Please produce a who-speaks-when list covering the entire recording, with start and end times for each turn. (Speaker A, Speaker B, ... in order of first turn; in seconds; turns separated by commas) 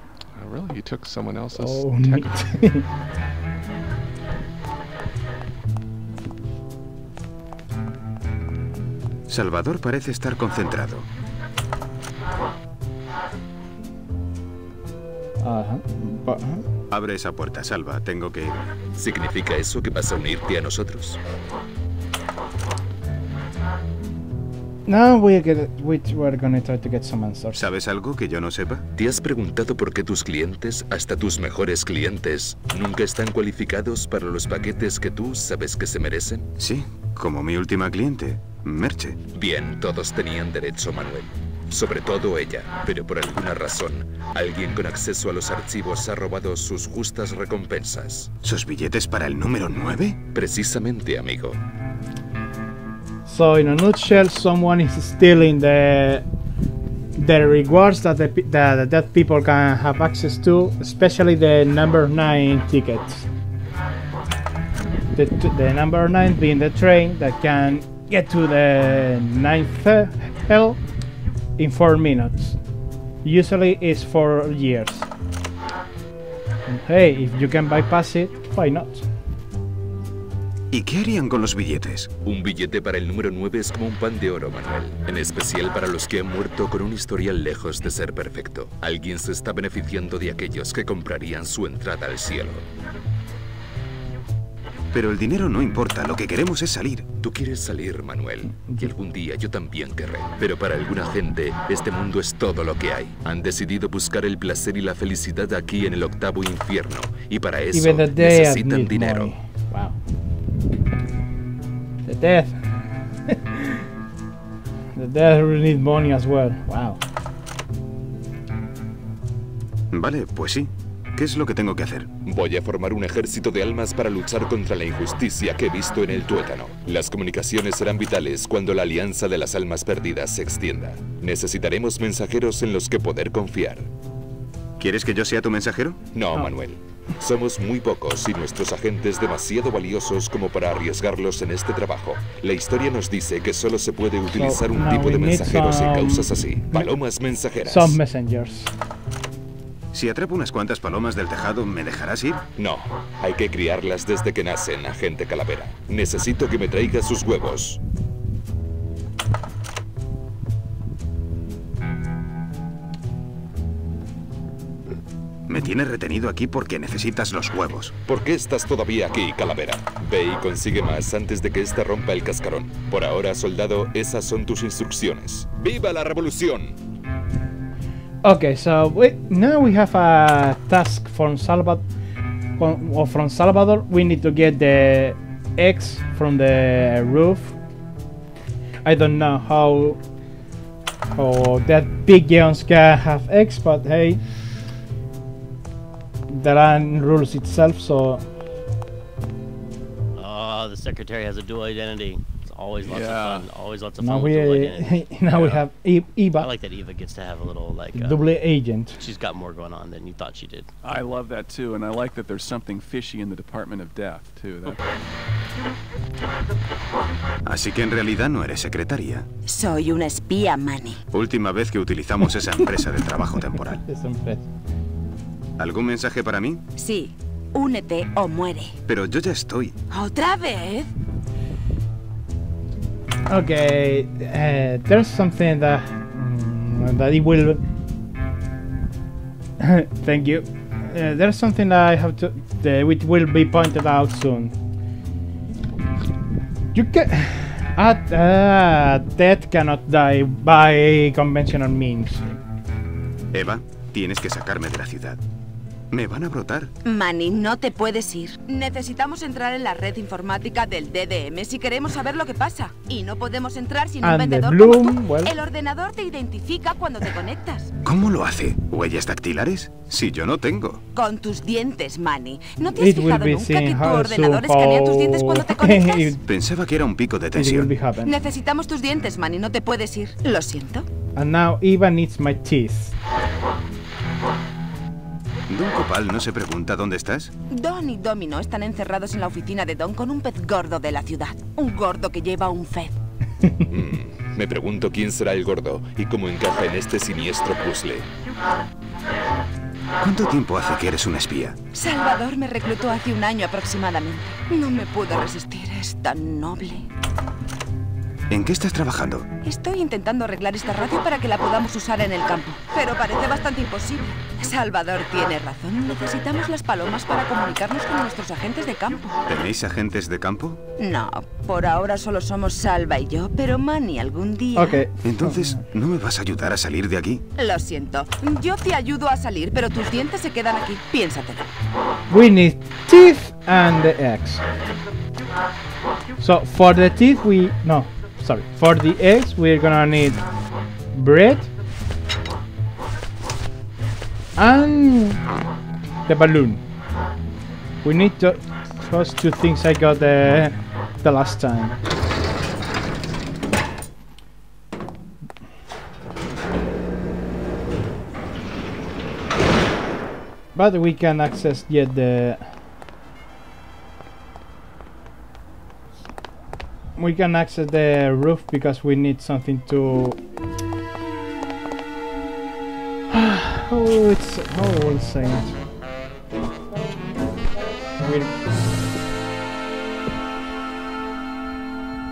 Speaker A: 0.3-2.4, Speaker B: 1.6-2.9, Speaker C: 9.3-11.1, Speaker B: 15.4-16.6, Speaker C: 16.9-18.8, Speaker D: 18.9-21.2, Speaker B: 24.9-27.7, Speaker C: 27.5-28.9, Speaker D: 28.9-36.5, Speaker C: 36.6-39.2, Speaker D: 39.3-48.3, Speaker C: 48.4-50.2, Speaker D: 50.2-51.6, Speaker B: 53.3-56.3, Speaker B: 57.2-63.3, Speaker B: 65.1-70.8, Speaker B: 71.6-72.6, Speaker B: 73.2-75.1, Speaker B: 76.7-79.1, Speaker C: 80.7-82.1, Speaker D: 82.2-92.6, Speaker C: 94.9-97.1, Speaker D: 97.2-109.3, Speaker B: 98.7-98.9, Speaker B: 107.7-110.0, Speaker B: 112.1-112.7, Speaker B: 113.3-113.8, Speaker B: 115.0-117.0, Speaker C: 119.9-122.1, Speaker D: 122.2-133.9, Speaker C: 134.8-136.0, Speaker D: 136.1-148.0, Speaker B: 144.3-146.9, Speaker B: 147.6-148.7, Speaker C: 149.9-152.5, Speaker D: 152.6-157.8, Speaker C: 165.5-167.9, Speaker D: 168.0-176.8, Speaker B: 178.2-181.8, Speaker B: 182.6-187.6, Speaker B: 188.8-190.0, Speaker B: 191.2-194.2, Speaker B: 196.3-198.2, Speaker E: 200.2-205.6, Speaker F: 202.8-203.5, Speaker B: 204.0-206.5, Speaker E: 206.4-208.3, Speaker B: 208.0-209.0, Speaker E: 208.9-210.7, Speaker F: 210.8-214.8, Speaker C: 217.4-219.3, Speaker G: 219.5-221.0, Speaker C: 221.1-223.8, Speaker B: 223.9-224.5, Speaker C: 225.6-226.6, Speaker G: 226.8-228.8, Speaker C: 228.9-229.8, Speaker G: 229.9-230.9, Speaker B: 233.3-237.6, Speaker B: 239.6-244.5, Speaker B: 246.7-252.4, Speaker C: 253.3-255.2, Speaker C: 255.9-256.7, Speaker G: 256.9-267.7, Speaker B: 264.0-265.3, Speaker C: 267.8-270.8, Speaker G: 270.9-276.1, Speaker B: 272.7-276.2, Speaker C: 276.2-277.7, Speaker B: 277.4-278.1, Speaker G: 278.0-280.9, Speaker B: 281.2-282.9, Speaker C: 285.5-287.3, Speaker G: 287.5-292.9, Speaker D: 293.7-298.1, Speaker C: 300.0-301.6, Speaker G: 301.7-306.9, Speaker C: 308.3-309.3, Speaker G: 309.4-319.2, Speaker C: 319.3-320.6, Speaker G: 320.8-324.8, Speaker B: 324.6-325.6, Speaker C: 325.0-327.2, Speaker G: 327.4-331.5, Speaker B: 332.1-334.4, Speaker B: 336.2-340.2, Speaker B: 340.9-341.5, Speaker B: 344.4-345.2, Speaker B: 346.1-346.6, Speaker B: 347.8-351.8, Speaker B: 360.6-362.5, Speaker B: 367.0-370.2, Speaker B: 373.1-375.5, Speaker B: 378.0-378.3